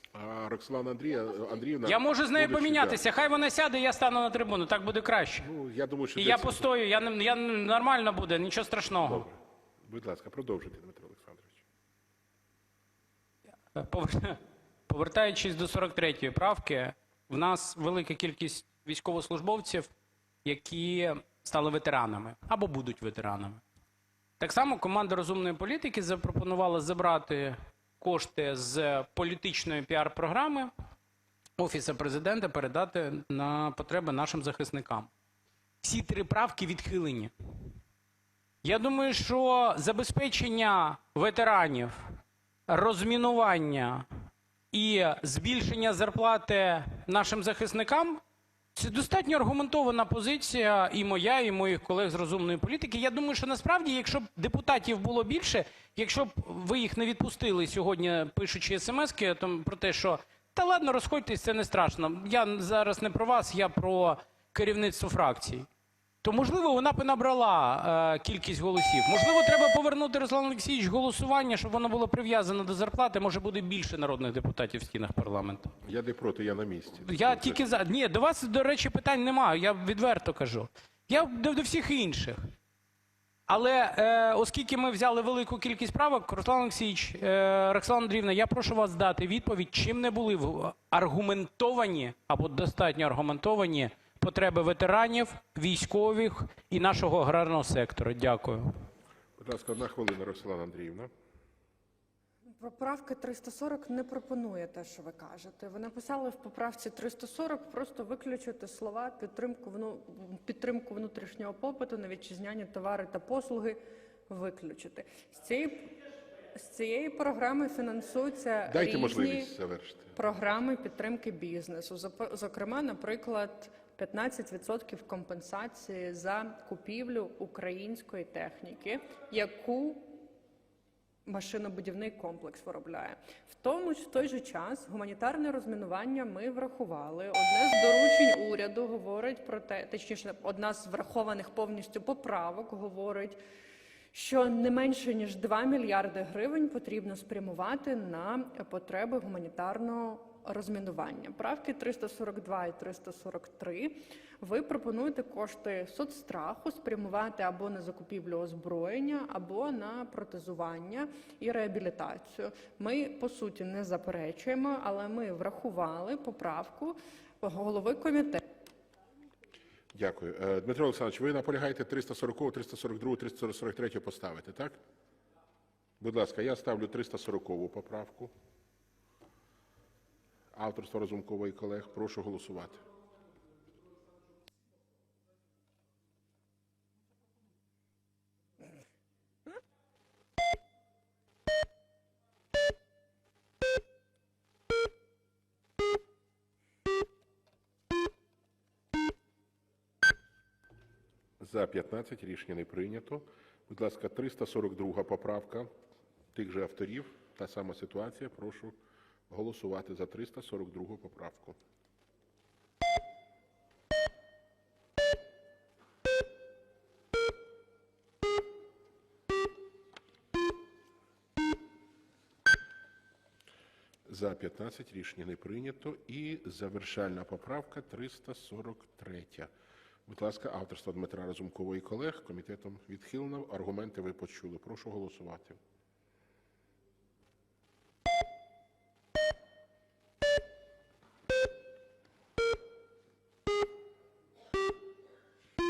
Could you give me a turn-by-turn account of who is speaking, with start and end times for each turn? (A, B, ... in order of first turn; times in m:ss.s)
0:00.1-0:03.0 A
0:01.8-0:05.5 B
0:05.4-0:06.7 A
0:06.2-0:09.3 B
0:09.0-0:11.6 A
0:13.7-0:19.9 B
0:20.4-0:23.6 B
0:24.4-0:30.7 B
0:31.6-0:35.1 B
0:35.8-0:37.3 B
0:38.6-0:42.0 B
0:42.7-0:44.1 B
0:44.7-0:48.2 B
0:48.7-1:05.7 B
1:06.2-1:15.7 B
1:15.8-1:17.6 A
1:17.0-1:22.4 B
1:23.5-1:38.6 B
1:39.4-1:41.1 A
1:42.6-1:53.8 C
1:54.3-1:55.9 C
1:56.5-1:59.5 C
1:58.6-2:00.1 A
2:00.1-2:10.1 C
2:11.2-2:23.4 C
2:24.1-2:48.4 C
2:49.9-2:54.8 A
2:56.0-2:58.3 A
3:00.5-3:02.8 A
3:21.4-3:25.7 A
3:26.3-3:28.8 A
3:29.3-3:31.6 A
3:44.1-3:49.5 A
3:50.1-3:55.6 A